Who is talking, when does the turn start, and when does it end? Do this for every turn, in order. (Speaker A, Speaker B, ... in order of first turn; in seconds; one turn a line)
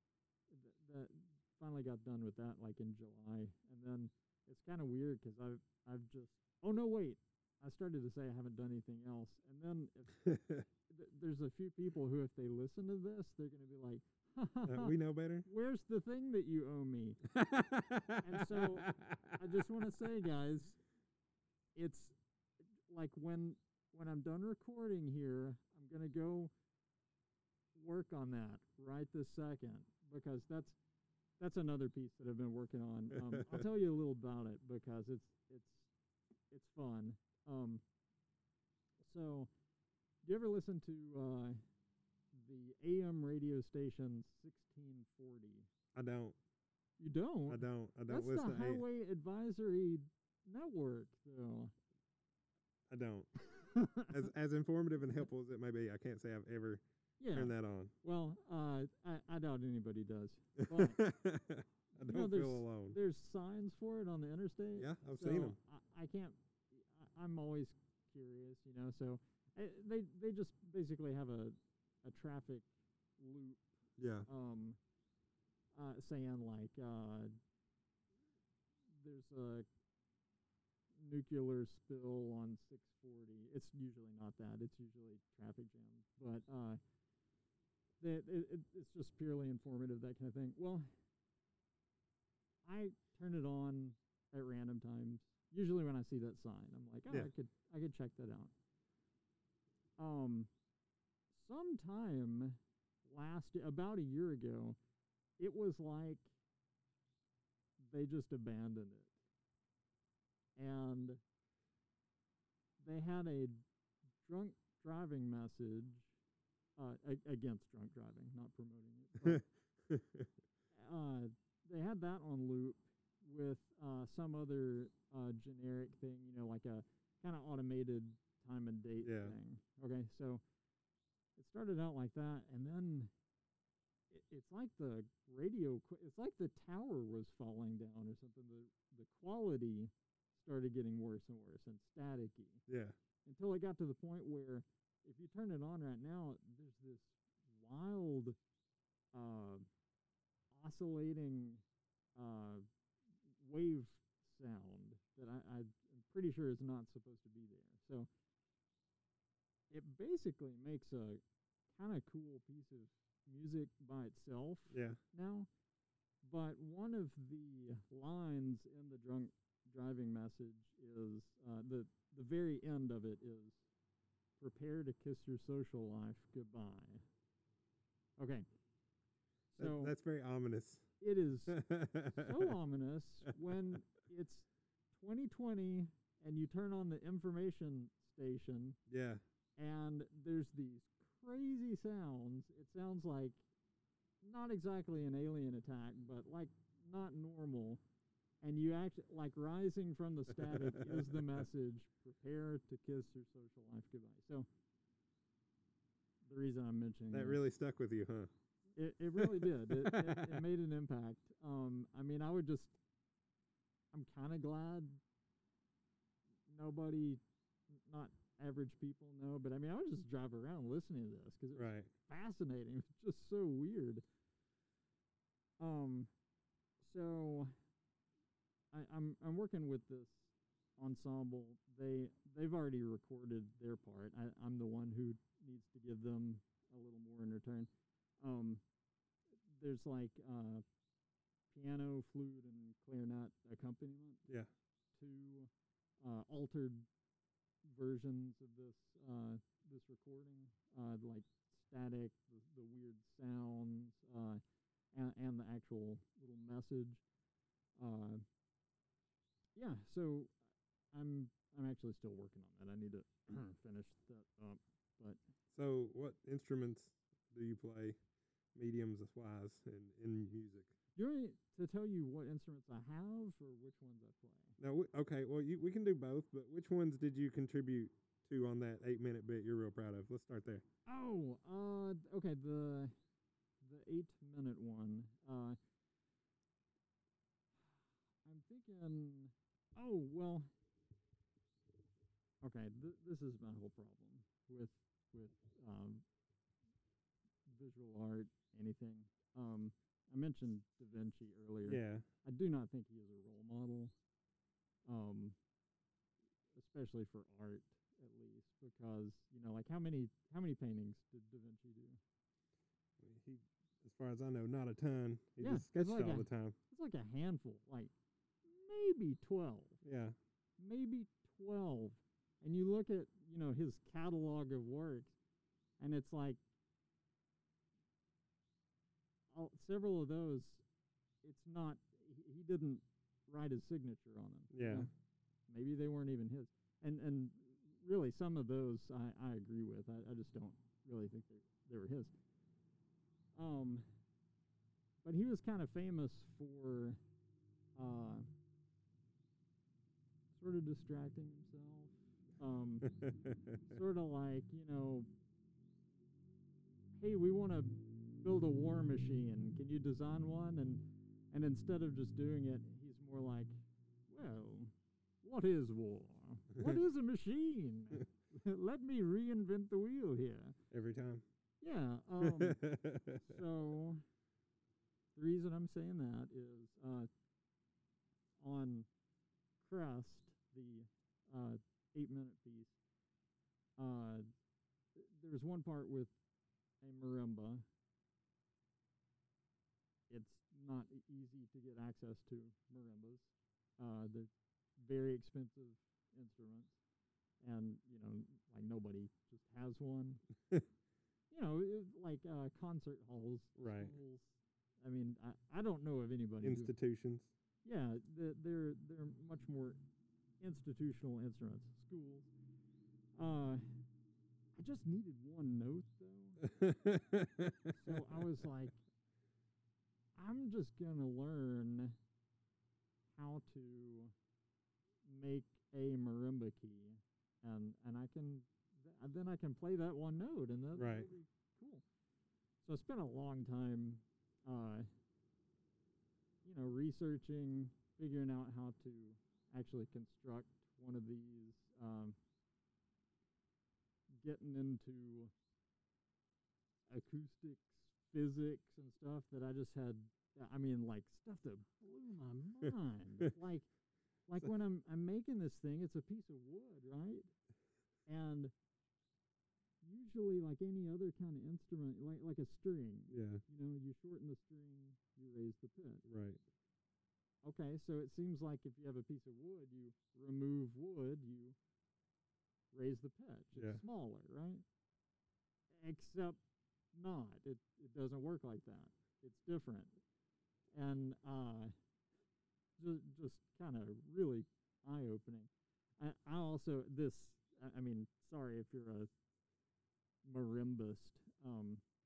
Speaker A: 0.5-14.9
Speaker B: 10.2-10.6
Speaker B: 14.6-15.5
Speaker A: 15.4-17.2
Speaker B: 17.3-19.6
Speaker A: 18.2-20.8
Speaker A: 21.7-22.1
Speaker A: 22.9-26.5
Speaker A: 27.7-30.8
Speaker A: 31.4-35.9
Speaker B: 33.1-33.6
Speaker A: 36.5-37.8
Speaker A: 39.0-39.5
Speaker A: 40.2-41.6
Speaker A: 42.3-45.7
Speaker B: 45.9-46.4
Speaker A: 47.0-51.7
Speaker B: 47.5-48.8
Speaker B: 52.9-53.3
Speaker A: 53.4-54.3
Speaker B: 54.1-57.9
Speaker A: 57.2-61.0
Speaker B: 60.6-63.0
Speaker A: 62.0-73.7
Speaker B: 64.8-65.6
Speaker B: 74.0-74.3
Speaker A: 74.3-74.8
Speaker A: 75.7-77.3
Speaker A: 78.9-79.7
Speaker A: 81.0-86.8
Speaker A: 88.0-90.9
Speaker A: 92.6-98.5
Speaker A: 100.0-100.5
Speaker A: 101.3-104.8
Speaker A: 105.4-106.3
Speaker A: 107.8-109.1
Speaker A: 110.5-111.2
Speaker A: 112.8-113.6
Speaker A: 114.2-116.1
Speaker A: 116.8-119.4
Speaker B: 119.2-120.3
Speaker A: 120.7-130.4
Speaker B: 129.0-129.3
Speaker A: 131.3-133.1
Speaker A: 134.1-142.6
Speaker B: 142.7-142.9
Speaker A: 143.2-148.4
Speaker A: 149.1-149.7
Speaker A: 150.5-151.6
Speaker A: 152.2-152.6
Speaker A: 153.4-158.1
Speaker A: 159.7-161.2
Speaker A: 161.7-165.5
Speaker B: 164.7-165.0
Speaker A: 166.2-173.6
Speaker A: 174.4-177.0
Speaker A: 178.2-178.4
Speaker A: 179.5-179.9
Speaker B: 179.6-180.9
Speaker A: 181.0-188.8
Speaker B: 181.5-182.6
Speaker B: 188.9-189.2
Speaker A: 189.6-193.4
Speaker A: 194.2-197.8
Speaker A: 198.4-204.5
Speaker B: 200.4-201.3
Speaker A: 206.2-207.4
Speaker B: 207.1-208.3
Speaker A: 208.8-212.8
Speaker B: 209.2-210.4
Speaker A: 213.9-215.0
Speaker A: 216.5-217.2
Speaker A: 217.7-224.0
Speaker B: 221.5-221.9
Speaker A: 225.6-226.1
Speaker A: 226.8-227.5
Speaker A: 228.7-237.7
Speaker A: 238.2-238.6
Speaker A: 239.5-240.6
Speaker A: 241.5-244.2
Speaker A: 244.9-246.8
Speaker A: 247.6-254.4
Speaker A: 254.9-257.0
Speaker A: 257.8-258.2
Speaker A: 259.6-260.3
Speaker A: 260.9-265.2
Speaker B: 265.5-268.0
Speaker B: 268.5-270.7
Speaker A: 270.9-274.6
Speaker B: 274.6-280.6
Speaker A: 280.9-282.9
Speaker A: 283.6-285.6
Speaker A: 288.2-290.5
Speaker A: 292.4-296.0
Speaker A: 297.5-303.9
Speaker B: 301.6-302.0
Speaker A: 304.9-305.4
Speaker A: 306.5-312.0
Speaker B: 313.0-316.6
Speaker A: 315.4-317.9
Speaker A: 318.4-319.8
Speaker B: 319.8-320.1
Speaker A: 320.6-325.1
Speaker A: 325.8-326.4
Speaker A: 329.3-330.6
Speaker A: 331.2-334.9
Speaker B: 334.5-334.9
Speaker A: 335.5-342.1
Speaker A: 343.3-343.8
Speaker A: 345.0-347.0
Speaker A: 347.8-348.3
Speaker A: 350.3-352.9
Speaker B: 352.8-353.7
Speaker A: 353.7-355.1
Speaker A: 357.0-370.6
Speaker B: 370.7-371.2
Speaker A: 371.6-372.7
Speaker B: 372.2-373.3
Speaker A: 373.2-374.0
Speaker A: 375.1-377.1
Speaker A: 378.4-378.9
Speaker A: 379.6-382.7
Speaker A: 383.8-384.2
Speaker A: 384.9-386.1
Speaker A: 386.8-387.6
Speaker A: 390.1-396.7
Speaker A: 397.4-400.2
Speaker A: 401.3-406.7
Speaker B: 403.6-403.9
Speaker B: 406.4-407.3
Speaker A: 407.6-409.8
Speaker A: 410.4-412.3
Speaker A: 413.1-413.6
Speaker A: 414.5-416.4
Speaker B: 416.4-418.4
Speaker A: 417.7-418.8
Speaker A: 420.1-421.9
Speaker A: 423.1-424.1
Speaker A: 425.0-431.8
Speaker B: 430.8-431.1
Speaker A: 432.6-434.9
Speaker A: 436.4-442.2
Speaker A: 444.2-445.3
Speaker A: 446.9-453.7
Speaker A: 454.3-457.3
Speaker A: 458.1-458.5
Speaker A: 459.8-466.0
Speaker B: 463.1-463.4
Speaker B: 466.1-466.4
Speaker A: 467.4-471.6
Speaker A: 472.7-474.6
Speaker B: 473.5-473.8
Speaker A: 475.7-476.4
Speaker A: 476.9-480.0
Speaker A: 480.7-481.7
Speaker A: 482.8-489.1
Speaker A: 490.2-491.8